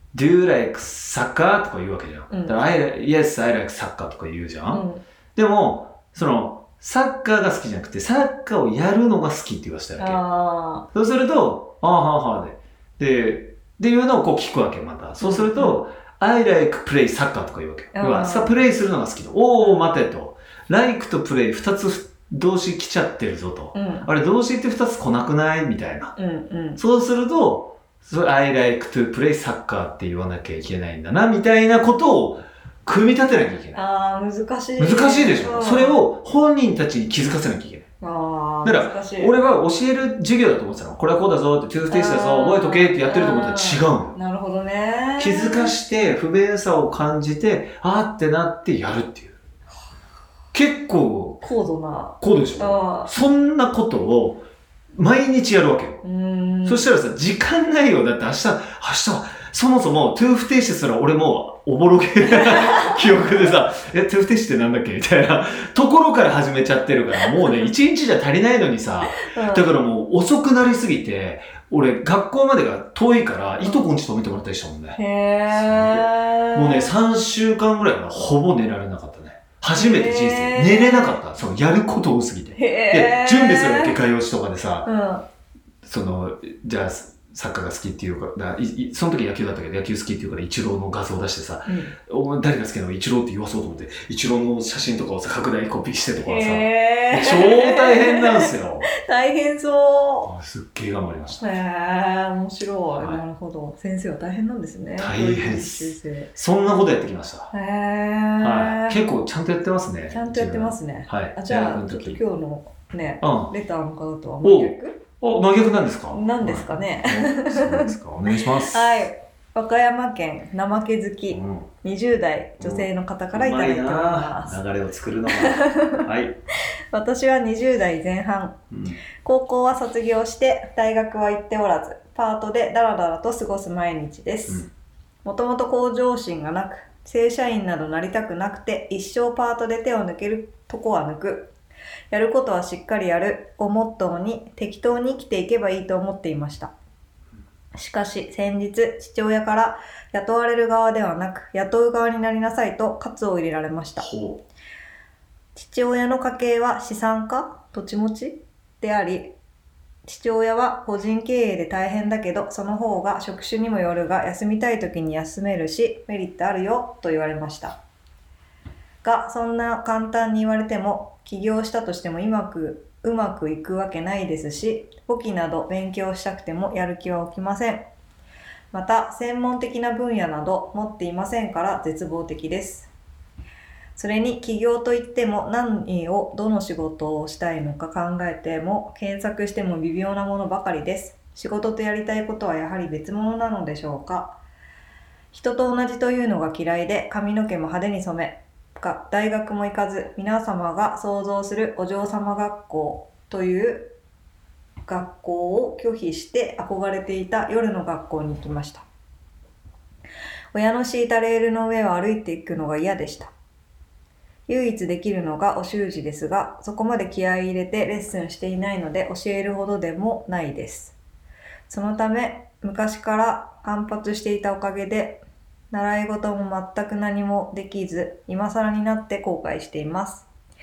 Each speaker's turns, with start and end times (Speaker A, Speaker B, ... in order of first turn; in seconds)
Speaker A: 0.1-10.2, 10.9-26.1, 26.8-33.8, 34.8-37.8, 38.6-44.1, 45.2-49.4, 50.5-51.4, 52.2-54.4, 54.9-56.0, 56.6-84.9, 85.8-98.9, 100.2-101.4, 102.9-103.2, 105.0-107.5, 108.4-112.2, 113.2-113.5, 114.4-119.1, 121.3-121.7, 122.6-126.4, 128.7-129.0, 154.0-154.4
Speaker B: 2.3-2.6, 4.7-5.0, 10.0-10.9, 15.2-15.8, 17.9-18.6, 19.6-19.9, 23.7-24.1, 26.1-26.8, 33.7-36.0, 38.0-39.3, 41.9-45.7, 51.4-53.1, 56.0-56.9, 62.4-62.9, 69.1-69.7, 75.0-76.9, 79.7-81.2, 82.5-84.0, 84.8-85.2, 91.7-91.9, 96.2-100.3, 101.4-106.3, 107.5-109.0, 110.1-115.0, 116.1-124.6, 125.3-126.1, 126.9-128.6, 129.2-134.7, 135.2-141.5, 142.1-146.7, 147.7-154.1, 155.5-159.3, 160.0-167.8, 169.0-177.9, 178.7-182.9, 183.9-194.4, 195.3-203.9, 204.8-208.8, 210.5-213.3, 214.5-220.9, 221.7-230.3